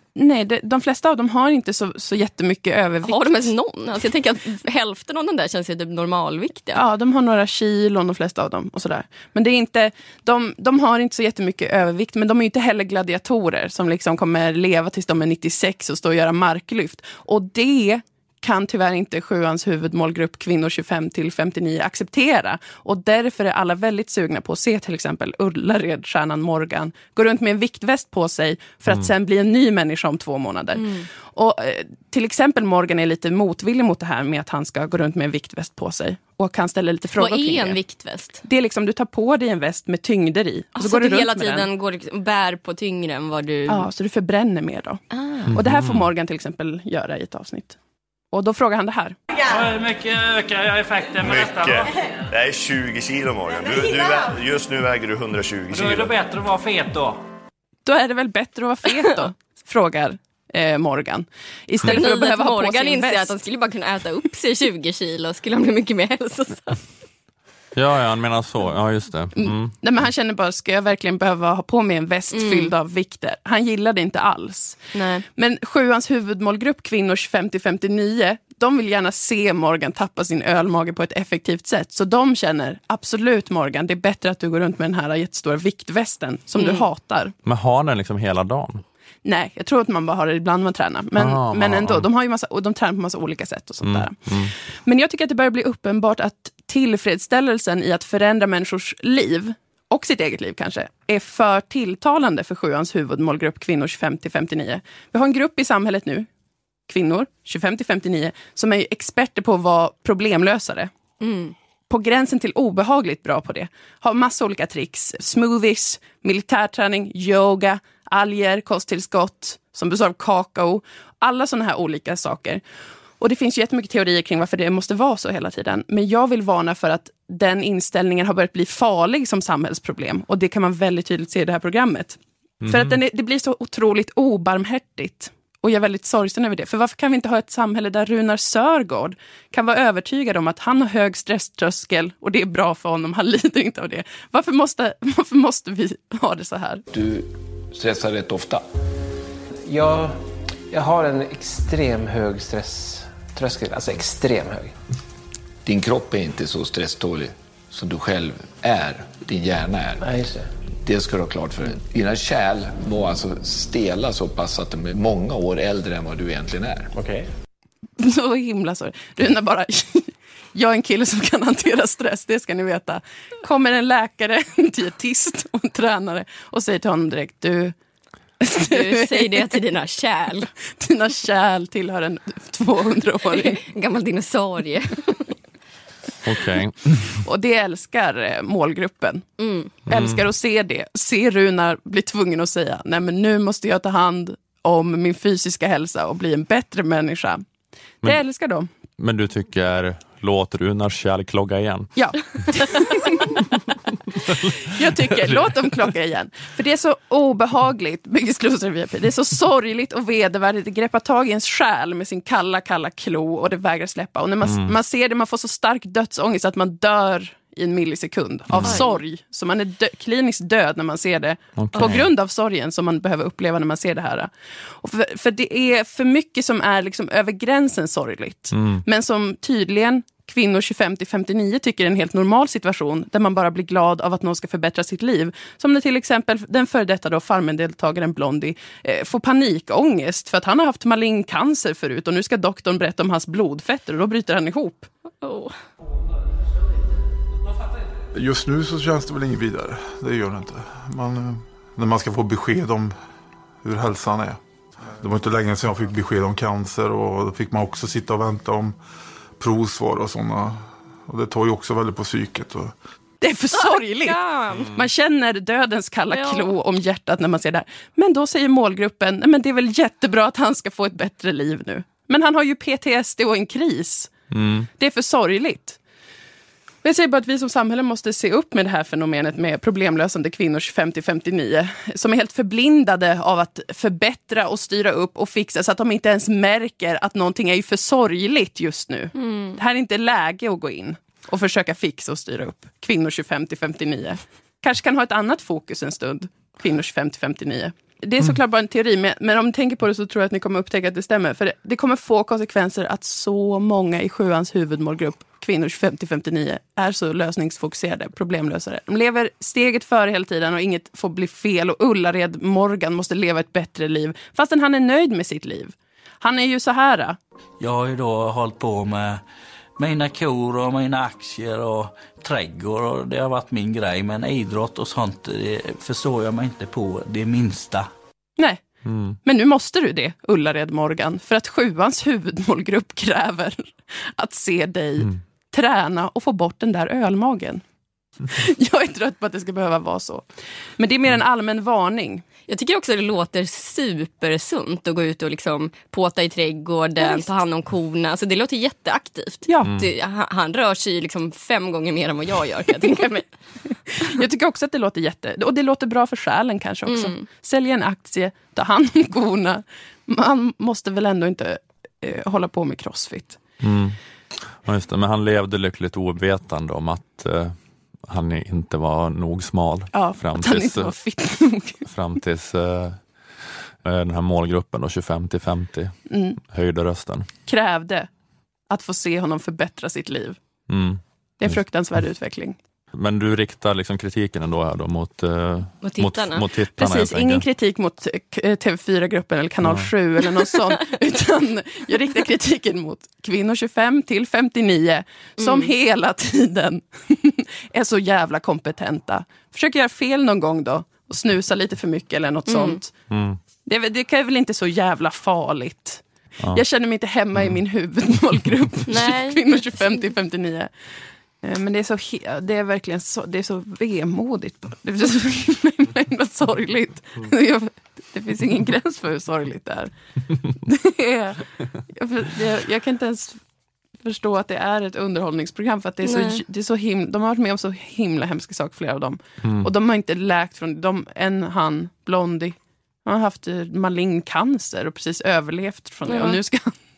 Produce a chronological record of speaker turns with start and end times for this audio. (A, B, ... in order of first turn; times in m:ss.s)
0:00.2-0:03.5 A
0:03.0-0:06.8 B
0:06.7-0:37.8 A
0:30.8-0:31.1 B
0:37.2-0:38.4 B
0:38.4-0:41.7 A
0:40.8-0:43.9 B
0:43.7-0:47.8 A
0:45.1-0:45.5 B
0:45.5-0:46.1 C
0:48.3-0:49.2 A
0:49.4-0:51.9 D
0:51.2-0:56.2 E
0:55.7-0:57.2 D
0:57.8-1:03.3 A
1:01.8-1:06.8 B
1:07.8-1:09.7 C
1:09.4-1:14.8 A
1:12.3-1:12.7 B
1:14.9-1:15.2 B
1:15.4-1:27.3 A
1:26.6-1:26.9 B
1:27.4-1:28.8 C
1:29.2-1:46.3 A
1:31.2-1:32.1 C
1:33.8-1:34.5 C
1:46.9-1:50.9 A
1:51.2-1:51.6 B
1:51.9-2:02.6 A
2:03.2-2:26.8 A
2:12.6-2:13.0 C
2:26.9-2:28.6 F
2:29.7-2:34.7 G
2:35.6-2:40.0 F
2:40.0-2:40.5 G
2:40.8-2:46.9 F
2:47.0-2:47.3 G
2:48.0-2:57.8 A
2:58.4-2:59.5 A
2:58.6-3:00.5 B
3:00.8-3:03.6 A
3:03.3-3:05.3 B
3:06.2-3:07.2 C
3:07.2-3:09.3 A
3:09.4-3:09.7 B
3:09.9-3:17.4 A
3:09.9-3:10.2 C
3:18.0-3:18.7 A
3:19.0-3:21.9 C
3:22.0-3:23.4 A
3:24.3-3:25.6 C
3:24.6-4:04.9 A
3:34.4-3:34.7 C
3:38.5-3:38.8 C
3:38.6-3:39.0 B
3:41.6-3:42.1 C
3:48.5-3:48.8 C
4:05.2-4:05.6 B
4:08.1-4:13.0 H
4:13.6-4:14.4 H
4:15.0-4:18.8 H
4:19.4-4:22.8 H
4:23.2-4:24.2 A
4:23.5-4:24.7 B
4:24.7-4:34.1 A
4:26.1-4:26.5 B
4:34.3-4:34.7 C
4:34.8-4:35.8 A
4:36.8-5:17.2 A
4:49.2-4:49.6 B
5:17.6-5:19.2 I
5:19.8-5:27.9 I
5:28.8-5:29.2 C
5:29.2-5:37.6 A
5:38.3-5:40.3 A
5:40.8-5:42.3 A
5:42.5-5:53.3 B
5:47.0-5:47.3 A
5:49.5-5:49.7 A
5:53.9-6:03.4 A
5:56.9-5:57.2 B
6:03.6-6:04.0 C
6:04.6-6:10.9 C
6:09.9-6:11.9 A
6:11.9-6:13.0 C
6:13.8-6:17.3 C
6:16.1-6:16.4 A
6:17.5-6:18.1 A
6:18.7-6:20.4 A
6:20.7-6:21.6 C
6:21.4-6:22.6 A
6:22.9-6:27.5 C
6:25.8-6:26.4 B
6:26.8-6:42.9 A
6:29.6-6:29.9 C
6:35.4-6:35.7 B
6:42.5-6:42.8 B
6:43.1-6:43.4 C
6:43.7-6:50.7 A
6:48.9-6:49.4 B
6:51.4-6:59.9 A
7:00.5-7:03.4 A
7:04.0-7:16.7 A
7:06.0-7:06.4 B
7:09.4-7:09.7 C
7:16.1-7:16.4 B